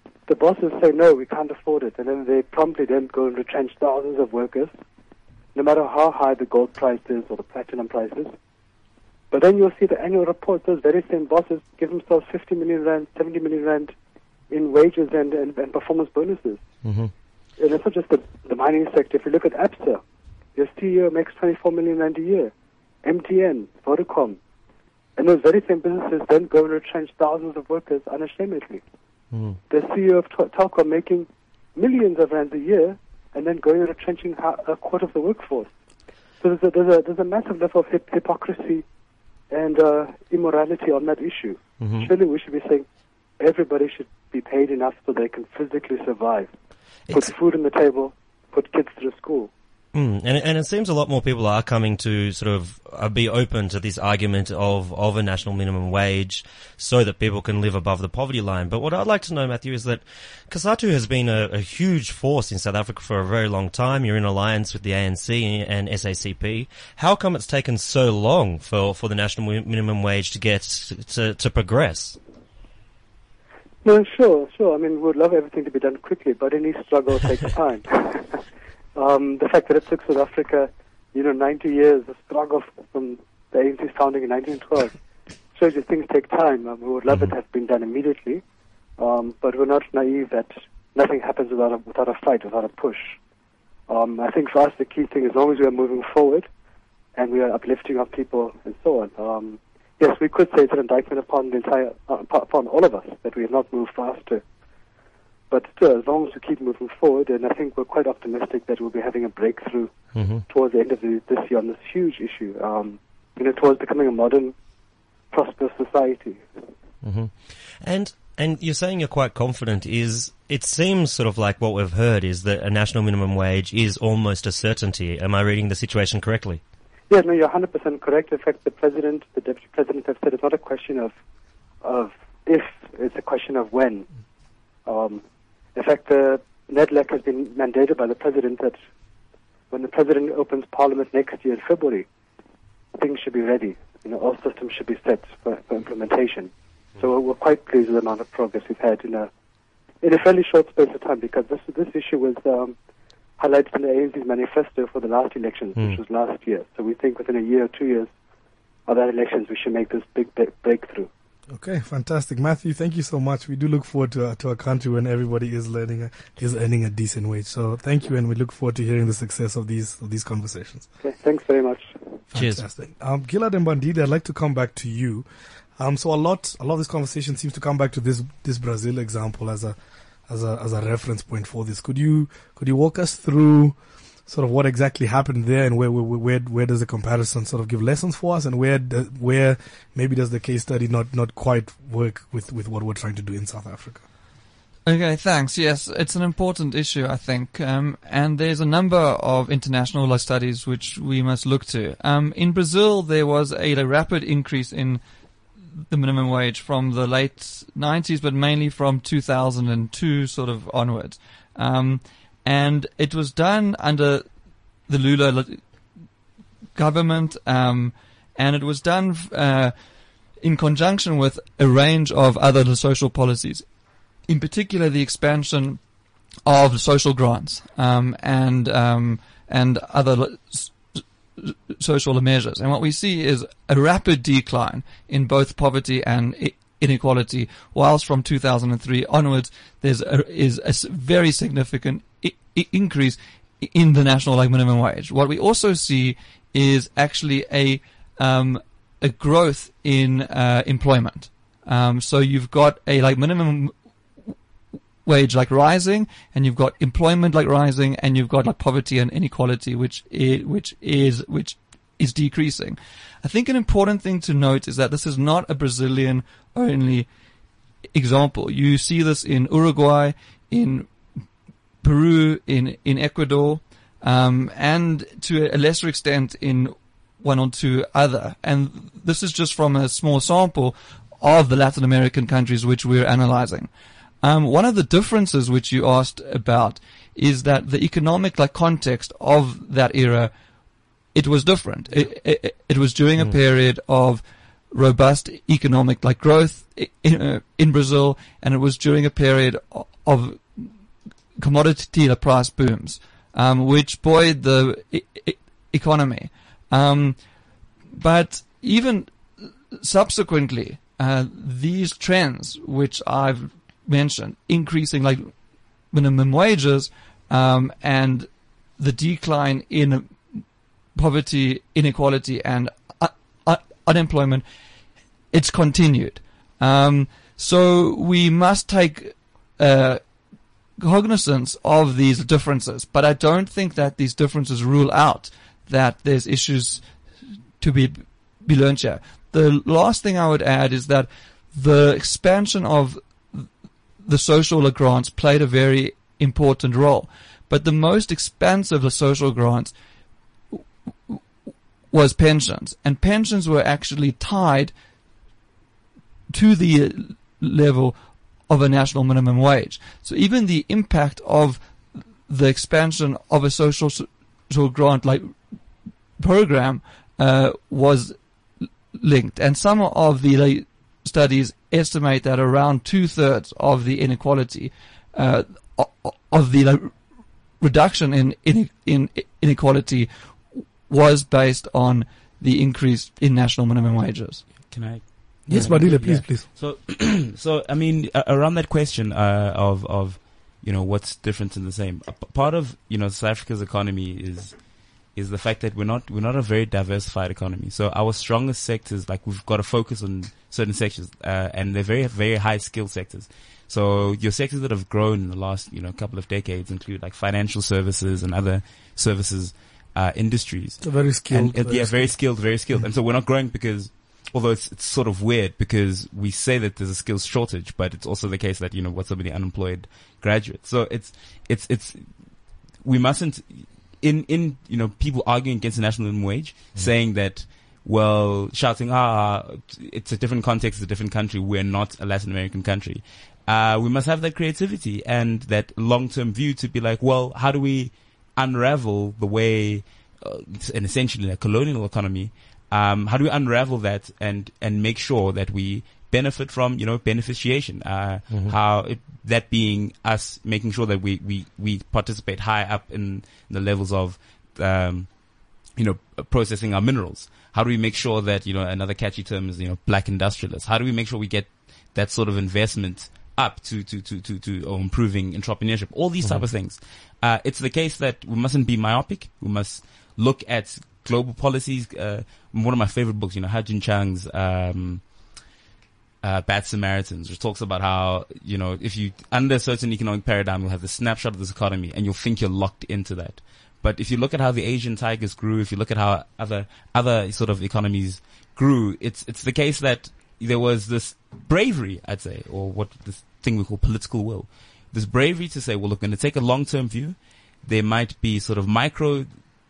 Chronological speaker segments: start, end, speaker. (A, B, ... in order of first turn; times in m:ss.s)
0:00.3-0:04.7 A
0:05.5-0:08.3 A
0:09.3-0:13.9 A
0:14.5-0:16.6 A
0:16.8-0:17.1 B
0:17.6-0:20.0 A
0:20.6-0:22.5 A
0:23.0-0:24.4 A
0:25.2-0:28.8 A
0:29.3-0:29.6 B
0:29.7-0:35.7 A
0:36.4-0:38.8 A
0:39.5-0:42.8 A
0:41.8-0:42.1 B
0:43.4-0:46.5 A
0:47.1-0:49.5 A
0:49.9-1:12.2 B
1:13.8-1:18.4 A
1:19.0-1:25.0 A
1:25.5-1:28.4 A
1:29.0-1:33.1 A
1:33.9-1:36.5 A
1:37.2-1:44.4 A
1:45.5-1:54.5 A
1:50.1-1:50.4 B
1:55.3-1:56.4 A
1:57.0-2:06.6 B
2:07.1-2:11.1 A
2:11.8-2:14.1 A
2:14.8-2:15.2 A
2:15.7-2:18.8 A
2:19.7-2:22.0 A
2:23.0-2:29.3 A
2:30.0-2:32.7 A
2:33.4-2:38.1 A
2:38.9-2:41.1 A
2:41.5-2:50.9 C
2:51.0-2:51.9 A
2:52.3-2:55.2 C
2:52.3-2:52.6 B
2:55.8-2:59.8 C
3:00.3-3:14.0 C
3:14.8-3:25.0 D
3:25.9-3:34.2 D
3:34.9-3:35.6 D
3:36.7-3:39.7 D
3:40.4-3:43.6 D
3:44.3-3:45.8 D
3:46.4-3:50.8 D
3:51.4-4:13.7 D
4:15.0-4:27.1 D
4:27.9-4:30.9 D
4:31.8-4:43.7 D
4:44.2-4:50.3 D
4:51.1-5:00.7 D
5:01.4-5:07.2 D
5:07.9-5:09.1 D
5:09.8-5:15.3 D
5:15.9-5:20.4 D
5:20.9-5:24.4 D
5:25.3-5:30.0 D
5:30.8-5:36.9 D
5:37.6-5:43.5 D
5:44.0-5:49.7 D
5:50.5-5:51.2 D
5:51.9-5:54.7 D
5:56.3-5:58.0 D
5:58.5-6:01.6 D
6:02.2-6:05.4 D
6:06.2-6:08.2 D
6:08.9-6:16.9 D
6:17.6-6:20.1 D
6:20.6-6:24.4 D
6:24.7-6:34.6 E
6:25.5-6:26.5 C
6:35.1-7:02.1 E
6:50.8-6:52.1 C
7:02.8-7:35.1 E
7:35.7-7:55.0 E
7:56.2-8:19.5 E